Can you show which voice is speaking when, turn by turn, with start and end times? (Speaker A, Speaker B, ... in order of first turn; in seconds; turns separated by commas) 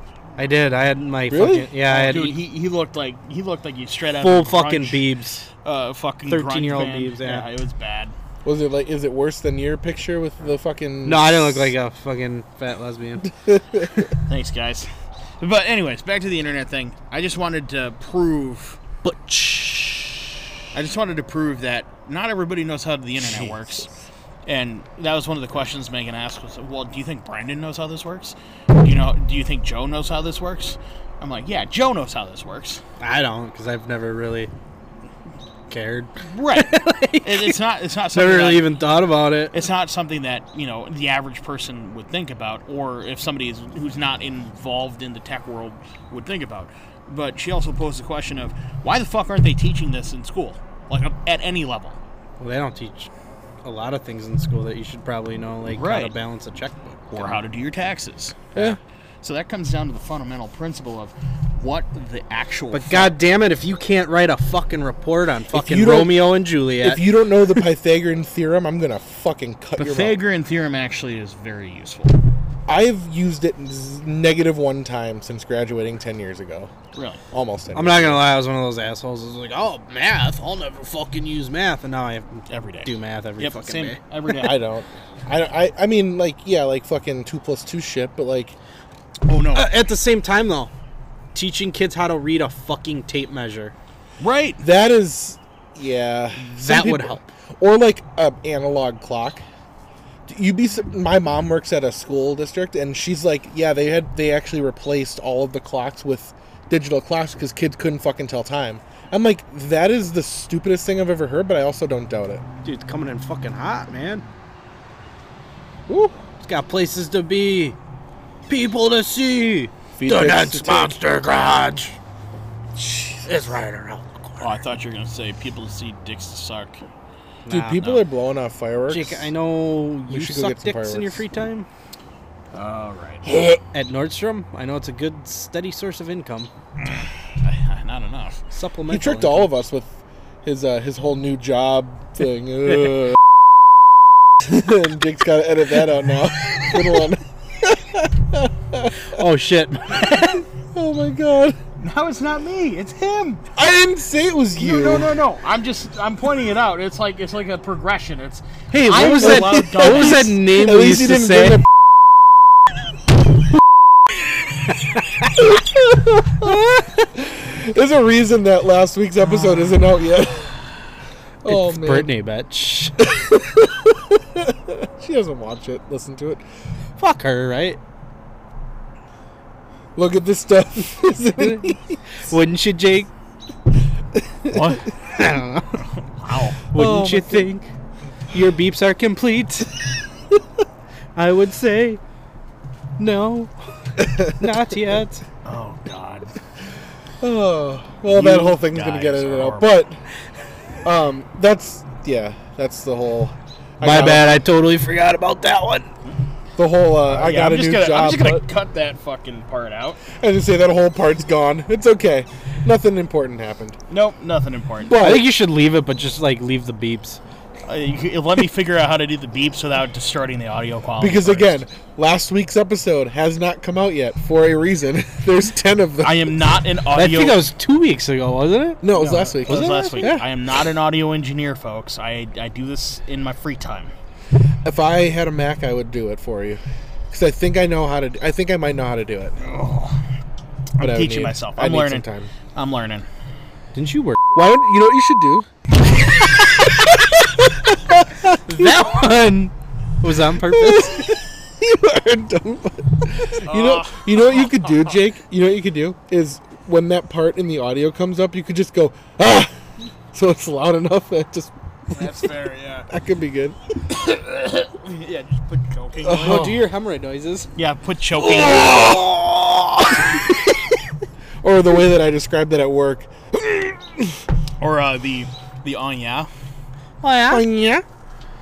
Speaker A: 0.4-2.4, Speaker B: 1.3-1.8, Speaker C: 1.9-5.0, Speaker A: 4.2-5.5, Speaker C: 5.6-8.1, Speaker A: 6.3-7.5, Speaker B: 8.4-11.7, Speaker A: 11.0-13.3, Speaker B: 13.2-14.1, Speaker C: 14.3-18.8, Speaker B: 19.1-20.0, Speaker C: 20.7-23.9, Speaker C: 24.4-32.8, Speaker A: 33.0-34.5, Speaker A: 35.7-37.6, Speaker C: 36.3-38.8, Speaker A: 38.1-39.6, Speaker C: 39.5-52.0, Speaker A: 52.4-53.1, Speaker A: 53.6-57.4, Speaker C: 55.7-56.1, Speaker C: 57.1-58.6, Speaker C: 59.2-63.1, Speaker A: 62.7-67.1, Speaker B: 65.5-70.2, Speaker C: 69.8-72.2, Speaker B: 72.7-76.7, Speaker C: 76.9-77.2, Speaker B: 77.3-78.2, Speaker A: 77.7-84.0, Speaker C: 82.5-84.6, Speaker B: 84.3-88.6, Speaker C: 89.3-89.7, Speaker A: 89.5-90.7, Speaker A: 91.3-93.7, Speaker C: 94.2-94.6, Speaker B: 94.6-99.4, Speaker A: 96.4-97.3, Speaker B: 100.3-112.5, Speaker A: 112.6-114.2, Speaker B: 115.9-116.2, Speaker A: 116.4-117.8, Speaker A: 118.5-122.0, Speaker B: 119.9-121.0, Speaker B: 122.8-123.3, Speaker A: 123.2-124.5, Speaker C: 124.4-126.8, Speaker A: 127.5-127.8, Speaker B: 127.5-129.3, Speaker C: 127.7-128.1, Speaker A: 128.9-131.7, Speaker B: 130.1-131.2, Speaker C: 132.5-133.2, Speaker A: 133.4-136.5, Speaker C: 137.4-138.4, Speaker A: 138.5-139.5, Speaker B: 138.9-143.2, Speaker B: 144.4-149.2, Speaker A: 149.1-150.4, Speaker B: 150.1-151.6, Speaker C: 151.8-153.4, Speaker B: 153.6-155.2, Speaker C: 154.6-160.4, Speaker A: 158.7-161.6, Speaker B: 159.1-161.7, Speaker B: 165.4-170.6, Speaker B: 171.4-172.1, Speaker A: 171.5-173.0, Speaker B: 173.0-176.4, Speaker A: 177.0-177.8, Speaker B: 180.0-182.0, Speaker A: 181.4-183.1, Speaker B: 184.4-184.8, Speaker C: 184.5-184.8, Speaker A: 185.0-185.8, Speaker C: 186.1-186.6, Speaker A: 186.7-187.7, Speaker B: 186.7-187.5, Speaker A: 188.3-189.8, Speaker A: 191.2-192.0, Speaker A: 193.0-193.5, Speaker B: 194.0-194.5, Speaker A: 194.2-195.2, Speaker C: 195.4-196.3, Speaker B: 197.2-200.0, Speaker C: 198.1-199.8, Speaker B: 200.8-204.4, Speaker A: 203.8-205.9, Speaker B: 206.6-208.4, Speaker C: 207.1-210.0, Speaker B: 210.2-213.8, Speaker C: 213.9-214.9, Speaker B: 214.8-215.3, Speaker A: 214.9-217.2, Speaker C: 217.7-221.6, Speaker B: 221.0-226.3, Speaker C: 226.0-227.5, Speaker A: 226.9-230.1, Speaker B: 228.8-230.3, Speaker C: 228.9-233.9, Speaker B: 234.6-239.4, Speaker C: 239.4-240.0, Speaker C: 240.8-243.1, Speaker B: 240.8-242.3, Speaker A: 243.7-244.2, Speaker B: 244.3-245.5, Speaker B: 246.4-248.8, Speaker A: 248.5-251.1, Speaker B: 250.5-259.6, Speaker C: 253.4-254.9, Speaker B: 260.1-262.1, Speaker C: 261.9-262.9, Speaker B: 262.9-263.6, Speaker C: 263.9-266.5, Speaker B: 266.0-266.7, Speaker A: 266.1-267.5, Speaker C: 267.6-269.1, Speaker A: 268.3-270.1, Speaker B: 271.4-274.2, Speaker C: 274.6-276.3, Speaker A: 277.0-277.4, Speaker B: 277.3-277.9